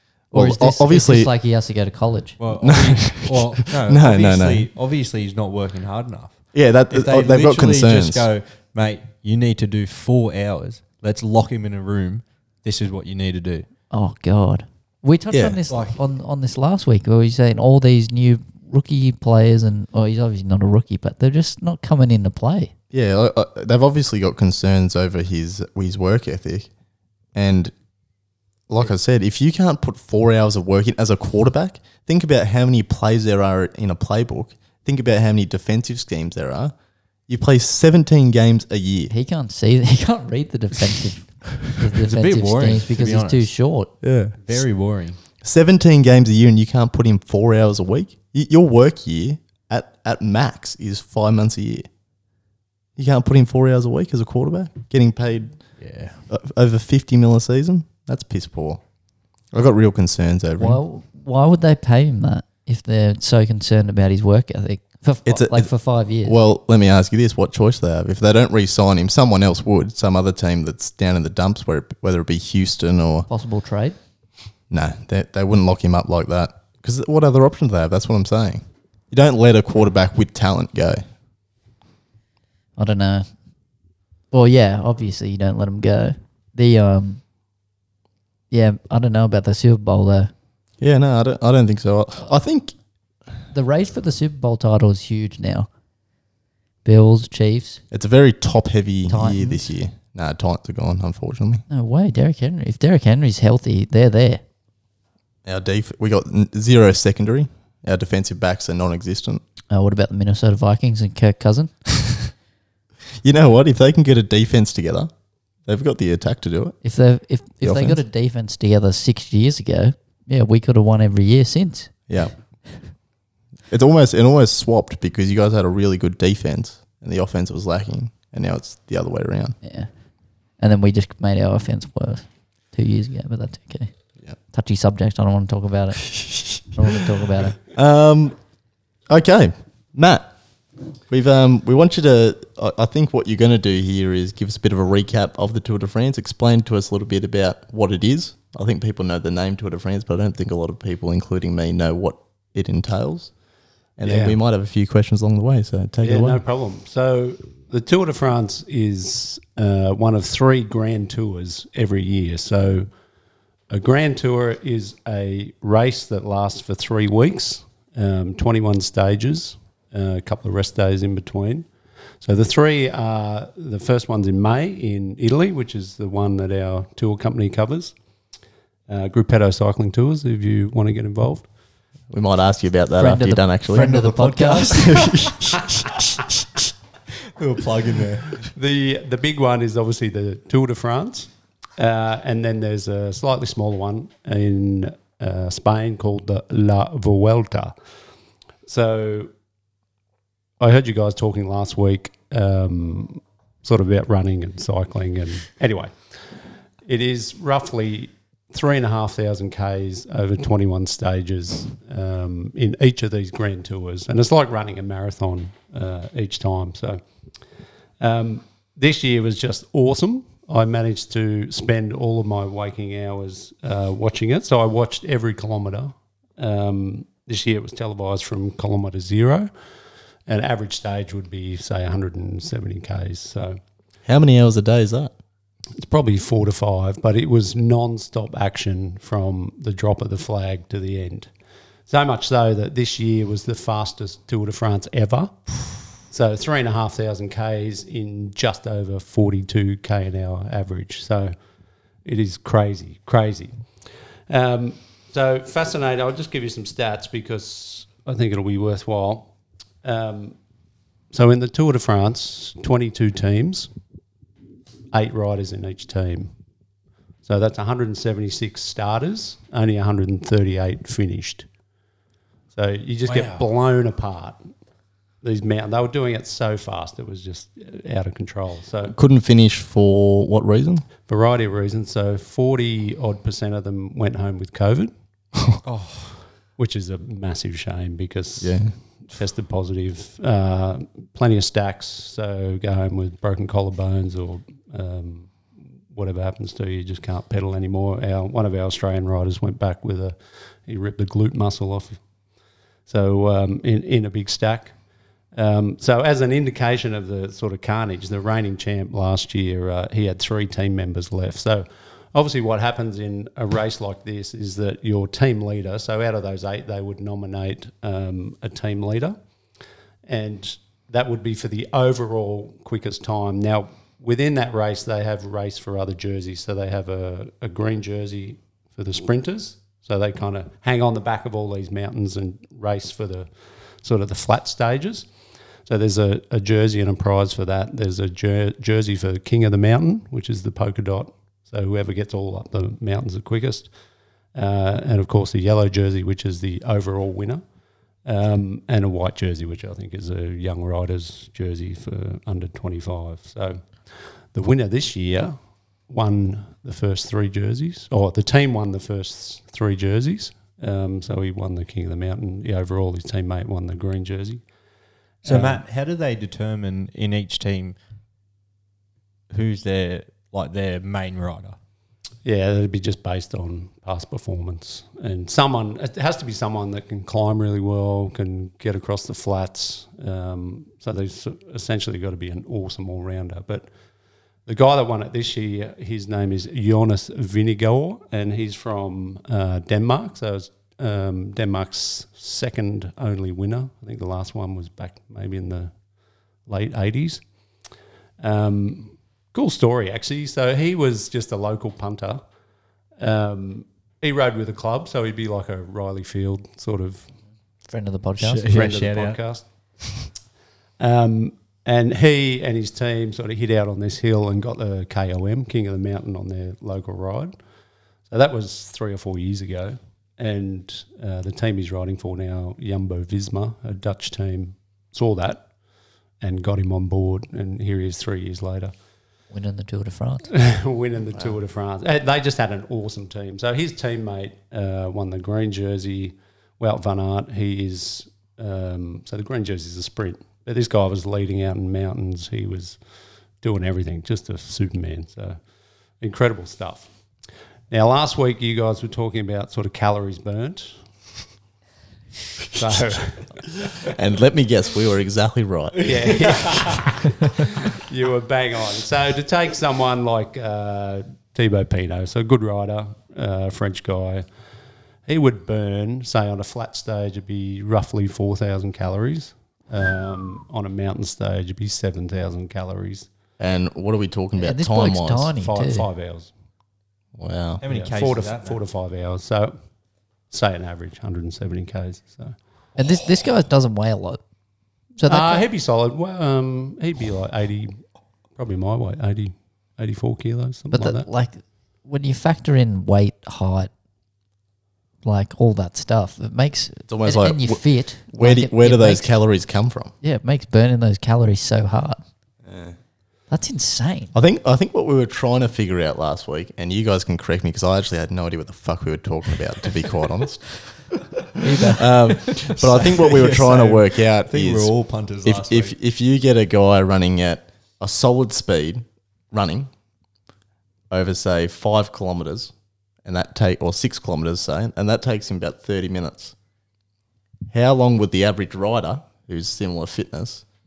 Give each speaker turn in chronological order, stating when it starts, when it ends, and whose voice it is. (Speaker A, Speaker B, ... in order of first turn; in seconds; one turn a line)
Speaker A: 0.3-2.4
Speaker B: 0.3-1.3
Speaker C: 2.4-13.7
Speaker B: 2.6-4.7
Speaker B: 6.5-8.3
Speaker A: 13.9-22.7
Speaker B: 15.3-15.6
Speaker C: 15.7-16.0
Speaker B: 22.9-26.7
Speaker B: 27.3-27.7
Speaker B: 28.7-36.7
Speaker B: 37.3-39.1
Speaker A: 39.1-43.9
Speaker C: 42.0-43.5
Speaker B: 44.0-44.4
Speaker C: 44.4-45.2
Speaker B: 45.4-51.9
Speaker B: 53.0-55.7
Speaker C: 55.8-56.2
Speaker B: 56.3-58.8
Speaker B: 59.5-60.8
Speaker A: 60.6-66.4
Speaker B: 65.2-65.7
Speaker B: 66.2-73.3
Speaker A: 73.3-74.0
Speaker B: 74.7-81.0
Speaker A: 82.8-83.3
Speaker A: 84.3-87.2
Speaker A: 88.5-90.3
Speaker B: 90.8-92.7
Speaker A: 93.5-95.7
Speaker A: 96.8-97.8
Speaker B: 97.9-101.6
Speaker A: 99.1-99.7
Speaker A: 101.7-104.4
Speaker B: 105.4-109.4
Speaker A: 109.7-111.7
Speaker B: 113.2-115.1
Speaker B: 115.7-116.8
Speaker A: 116.8-122.0
Speaker B: 117.6-118.0
Speaker B: 122.1-122.3
Speaker B: 123.7-129.6
Speaker A: 129.6-129.9
Speaker A: 130.6-133.9
Speaker A: 134.5-137.6
Speaker B: 137.7-138.3
Speaker B: 139.1-140.3
Speaker B: 141.1-153.3
Speaker B: 154.0-156.4
Speaker D: 154.0-154.4
Speaker D: 156.0-162.9
Speaker D: 163.7-171.7
Speaker D: 172.2-177.9
Speaker D: 178.9-181.4
Speaker B: 182.1-183.9
Speaker A: 183.0-185.0
Speaker C: 183.7-185.7
Speaker C: 187.3-188.5
Speaker D: 188.4-197.7
Speaker D: 198.7-199.3
Speaker D: 200.6-205.9
Speaker D: 206.8-217.0
Speaker D: 218.0-229.5
Speaker D: 230.3-233.6
Speaker B: 234.1-235.1
Speaker D: 235.7-241.3
Speaker D: 241.9-251.3
Speaker D: 252.0-253.6
Speaker D: 254.3-259.3
Speaker D: 259.8-260.4
Speaker D: 261.1-263.7
Speaker D: 264.9-266.3
Speaker D: 267.2-271.5
Speaker D: 272.5-274.4
Speaker C: 273.1-273.4
Speaker D: 275.2-278.9
Speaker B: 278.9-280.8
Speaker D: 281.1-284.9
Speaker C: 285.6-286.2
Speaker D: 286.6-295.4
Speaker B: 288.4-288.7
Speaker D: 295.9-302.0
Speaker D: 302.9-304.7
Speaker D: 305.3-319.2
Speaker D: 320.1-333.3
Speaker D: 333.8-335.1
Speaker D: 335.7-343.7
Speaker D: 344.3-347.4
Speaker D: 348.0-355.4
Speaker D: 355.9-364.4
Speaker D: 365.2-365.6
Speaker C: 365.2-367.8
Speaker C: 369.3-371.6
Speaker D: 372.2-383.7
Speaker D: 384.4-395.7
Speaker D: 396.5-397.2
Speaker D: 398.2-402.2
Speaker D: 403.0-407.1
Speaker A: 407.7-408.7
Speaker C: 408.2-409.2
Speaker D: 408.5-409.4
Speaker D: 410.8-417.3
Speaker D: 418.1-425.5
Speaker D: 426.2-428.7
Speaker A: 429.3-430.3
Speaker D: 430.3-442.8
Speaker D: 443.4-445.4
Speaker D: 446.0-446.9
Speaker D: 447.7-450.7
Speaker D: 452.5-453.4
Speaker B: 453.8-455.9
Speaker D: 455.8-464.2
Speaker D: 465.1-473.1
Speaker B: 473.4-475.3
Speaker A: 474.4-475.9
Speaker D: 475.3-476.3
Speaker B: 477.2-477.6
Speaker C: 477.6-478.6
Speaker D: 477.6-479.6
Speaker D: 480.3-482.3
Speaker A: 482.8-484.2
Speaker A: 485.0-485.4
Speaker D: 485.1-487.8
Speaker D: 488.4-491.1
Speaker A: 490.7-493.7
Speaker A: 495.0-499.1
Speaker B: 496.9-499.9
Speaker A: 500.0-502.0
Speaker B: 502.4-502.7
Speaker A: 503.3-504.1
Speaker B: 504.1-510.5
Speaker A: 511.4-511.8
Speaker B: 511.8-519.7
Speaker C: 512.1-515.8
Speaker B: 520.9-522.5
Speaker B: 523.0-526.3
Speaker B: 527.5-530.4